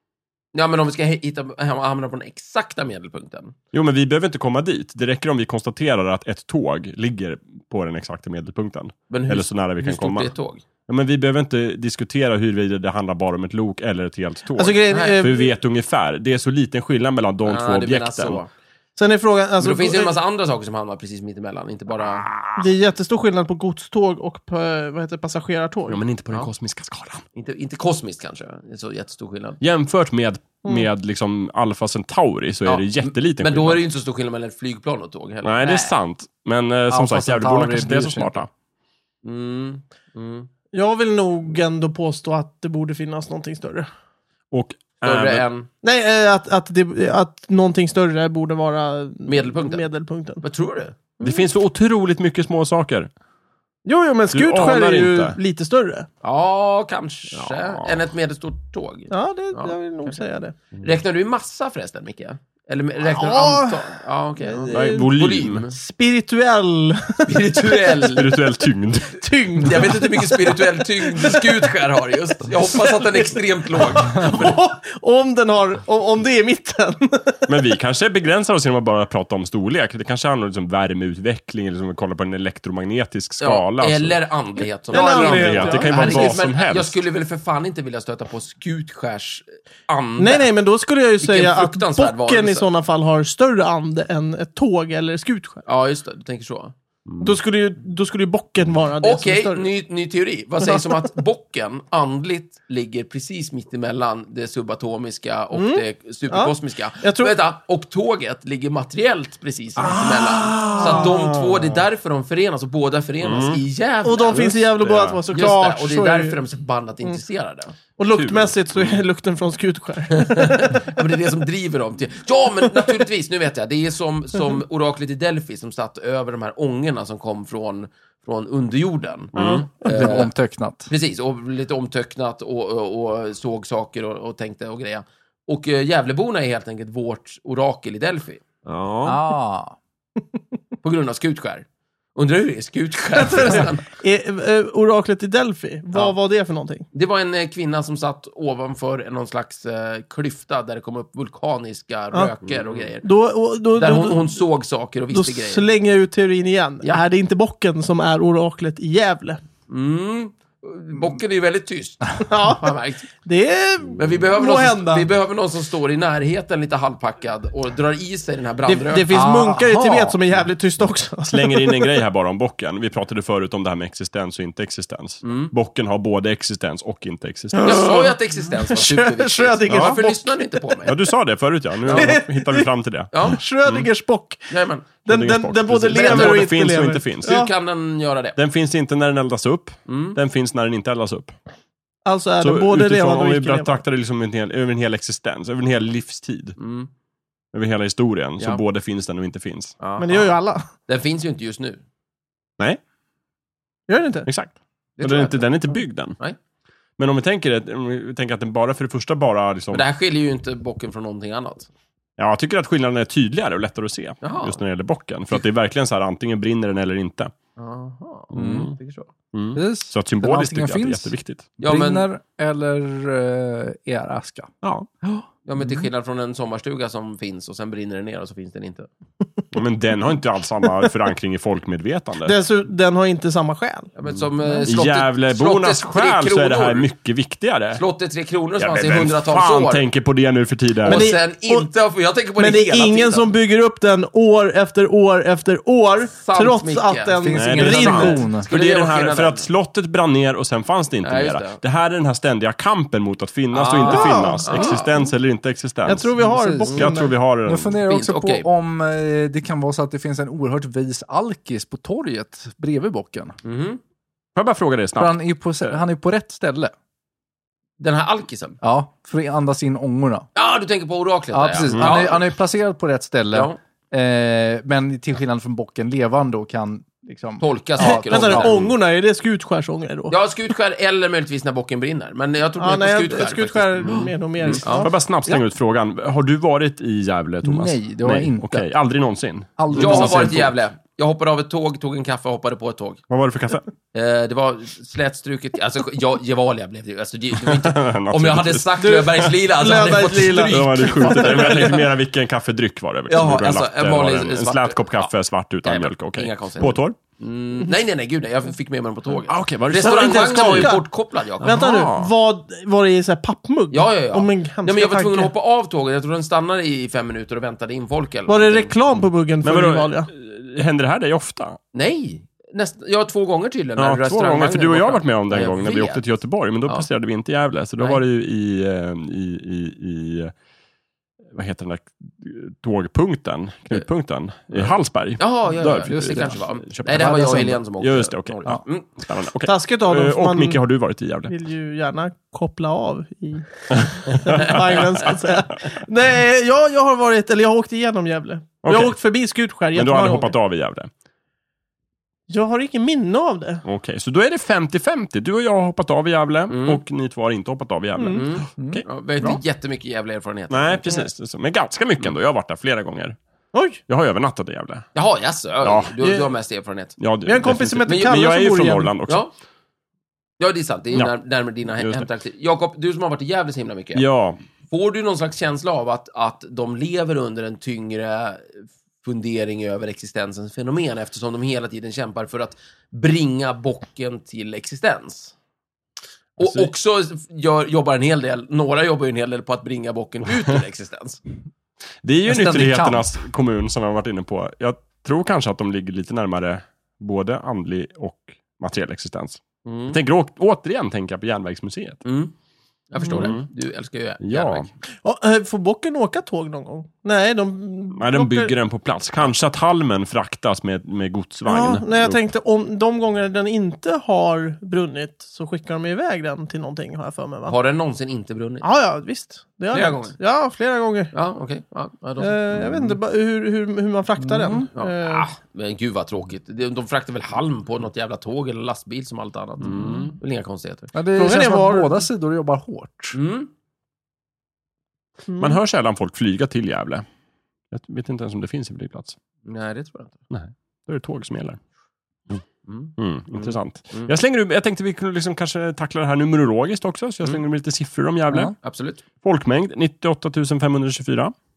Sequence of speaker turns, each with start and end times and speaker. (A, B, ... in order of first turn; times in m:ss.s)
0:00.5-0:03.6 A
0:03.7-0:10.3 B
0:09.1-0:10.6 A
0:10.9-0:18.4 B
0:14.6-0:15.5 C
0:14.9-0:15.2 A
0:17.4-0:18.5 A
0:19.0-0:20.2 C
0:19.6-0:22.2 A
0:22.2-0:22.6 B
0:22.6-0:26.0 C
0:25.9-0:27.2 B
0:27.4-0:29.6 A
0:29.6-0:33.8 B
0:32.7-0:36.0 A
0:35.4-0:38.5 B
0:36.9-0:38.5 D
0:39.2-0:40.5 A
0:40.7-0:43.9 C
0:44.5-0:45.4 B
0:45.0-0:45.7 A
0:45.8-0:50.4 C
0:49.2-0:49.9 A
0:50.4-0:51.0 A
0:51.2-0:51.5 C
0:51.2-0:53.1 B
0:53.9-0:56.1 C
0:54.3-0:55.4 B
0:56.2-1:00.2 A
0:57.3-0:58.0 B
0:59.1-1:00.5 C
1:00.8-1:05.8 A
1:03.1-1:03.8 C
1:04.4-1:05.1 C
1:04.7-1:05.7 B
1:05.7-1:08.0 C
1:07.2-1:08.4 A
1:08.0-1:09.2 B
1:09.2-1:11.5 C
1:09.6-1:14.6 A
1:13.0-1:17.4 C
1:17.5-1:24.2 B
1:23.4-1:30.5 A
1:24.9-1:26.4 C
1:24.9-1:27.0 B
1:30.2-1:35.6 C
1:31.2-1:32.7 A
1:35.7-1:36.7 A
1:37.1-1:37.4 B
1:37.2-1:39.7 C
1:39.0-1:54.7 A
1:45.5-1:47.4 C
1:49.8-1:51.8 B
1:53.2-1:53.6 B
1:54.0-1:56.4 C
1:54.3-1:55.2 B
1:55.3-1:57.7 A
1:58.0-2:00.9 C
1:58.1-1:59.0 B
2:00.1-2:10.3 A
2:09.4-2:09.7 B
2:09.8-2:10.9 D
2:10.9-2:18.4 A
2:18.7-2:19.2 B
2:19.0-2:19.8 D
2:20.8-2:23.8 A
2:23.2-2:26.9 C
2:26.9-2:33.0 A
2:33.0-2:34.4 C
2:33.8-2:35.7 A
2:35.1-2:39.4 C
2:39.7-2:43.1 A
2:42.3-2:45.1 C
2:44.0-2:49.1 A
2:48.7-2:52.0 C
2:49.1-2:50.2 D
2:51.3-2:57.9 B
2:55.2-2:55.5 A
2:57.5-3:00.4 C
2:57.6-3:01.0 A
2:59.7-3:00.0 B
3:00.8-3:03.1 B
3:01.9-3:02.2 A
3:01.9-3:02.7 C
3:03.1-3:03.4 A
3:03.2-3:04.5 C
3:04.5-3:04.9 A
3:05.0-3:07.4 B
3:05.1-3:07.5 C
3:05.9-3:06.5 A
3:07.2-3:08.4 A
3:08.4-3:11.3 B
3:09.9-3:10.2 A
3:12.0-3:13.8 C
3:12.4-3:16.6 B
3:16.6-3:16.9 A
3:17.5-3:19.8 B
3:19.8-3:20.3 A
3:20.0-3:20.7 C
3:20.9-3:21.8 A
3:23.9-3:24.3 C
3:24.3-3:26.2 B
3:25.0-3:25.5 A
3:27.0-3:29.8 B
3:29.7-3:31.7 A
3:32.2-3:37.3 B
3:34.2-3:34.6 A
3:37.6-3:39.1 A
3:38.3-3:38.7 B
3:38.4-3:38.6 D
3:39.3-3:41.5 B
3:39.6-3:44.5 D
3:41.6-3:42.1 A
3:44.6-3:44.9 B
3:45.4-3:48.9 A
3:49.5-3:52.3 B
3:52.2-3:53.9 C
3:54.0-3:56.9 A
3:54.7-3:57.8 B
3:57.8-3:59.8 A
3:58.6-4:01.1 B
4:00.8-4:01.7 C
4:00.8-4:03.3 A
4:02.4-4:08.3 C
4:06.1-4:07.3 A
4:07.2-4:08.5 D
4:07.4-4:16.1 B
4:08.1-4:09.5 A
4:11.0-4:11.6 A
4:13.5-4:14.8 A
4:13.8-4:15.1 C
4:15.9-4:17.1 C
4:16.2-4:16.9 D
4:16.7-4:17.8 B
4:17.4-4:23.4 D
4:17.8-4:18.5 A
4:23.4-4:23.8 A
4:24.4-4:25.8 B
4:25.0-4:26.7 D
4:27.8-4:28.6 A
4:28.6-4:30.3 D
4:30.4-4:32.3 A
4:31.3-4:38.5 D
4:31.7-4:32.0 B
4:33.3-4:33.6 A
4:37.4-4:38.7 A
4:37.8-4:40.2 C
4:40.1-4:44.9 A
4:42.6-4:45.4 C
4:44.4-4:50.5 B
4:47.4-4:48.7 D
4:49.6-4:50.5 D
4:49.7-4:53.0 A
4:53.1-4:53.7 B
4:53.9-5:01.8 A
4:57.4-4:59.3 B
4:58.8-5:01.8 C
5:00.0-5:07.0 B
5:03.1-5:05.1 A
5:05.6-5:11.9 A
5:09.3-5:10.8 B
5:09.8-5:10.8 C
5:11.4-5:15.3 C
5:11.5-5:12.1 B
5:13.7-5:18.7 A
5:18.3-5:20.1 C
5:19.4-5:21.6 B
5:21.7-5:26.0 A
5:23.8-5:30.3 B
5:31.3-5:41.3 B
5:34.6-5:38.9 A
5:35.9-5:37.6 D
5:39.5-5:40.6 C
5:41.3-5:50.4 C
5:44.0-5:45.2 B
5:48.6-5:49.0 B
5:49.7-5:50.9 B
5:52.3-5:53.6 C
5:53.6-5:59.4 B
5:56.5-5:56.8 A
5:58.0-5:58.2 C
5:58.2-6:00.9 A
6:00.5-6:03.2 B
6:03.5-6:03.8 C
6:03.9-6:04.9 B
6:05.0-6:07.0 A
6:05.6-6:05.9 B
6:07.0-6:09.2 B
6:07.2-6:08.9 C
6:07.9-6:08.2 A
6:09.1-6:09.3 A
6:10.4-6:14.0 A
6:11.8-6:12.1 B
6:14.0-6:14.4 B
6:14.7-6:25.3 A
6:26.4-6:31.2 A
6:26.4-6:26.7 B
6:32.0-6:42.0 B
6:32.3-6:33.1 D
6:39.6-6:40.0 A
6:42.0-6:42.3 A
6:42.9-6:44.7 A
6:43.0-6:43.5 B
6:44.2-6:44.7 B
6:45.0-6:48.5 C
6:48.0-6:52.2 B
6:51.4-6:57.6 C
6:57.5-6:58.6 A
6:58.6-7:01.1 C
6:59.7-7:00.2 A
7:01.1-7:02.6 A
7:02.2-7:05.3 C
7:04.2-7:04.7 D
7:04.7-7:10.9 A
7:09.7-7:10.0 B
7:09.8-7:10.0 D
7:10.9-7:13.2 D
7:11.2-7:12.1 C
7:13.1-7:13.5 A
7:15.3-7:15.6 C
7:15.4-7:17.0 B
7:17.7-7:19.2 B
7:19.4-7:20.2 A
7:20.3-7:21.6 B
7:22.6-7:24.1 A
7:23.0-7:28.6 B
7:28.6-7:29.0 A
7:29.2-7:31.3 B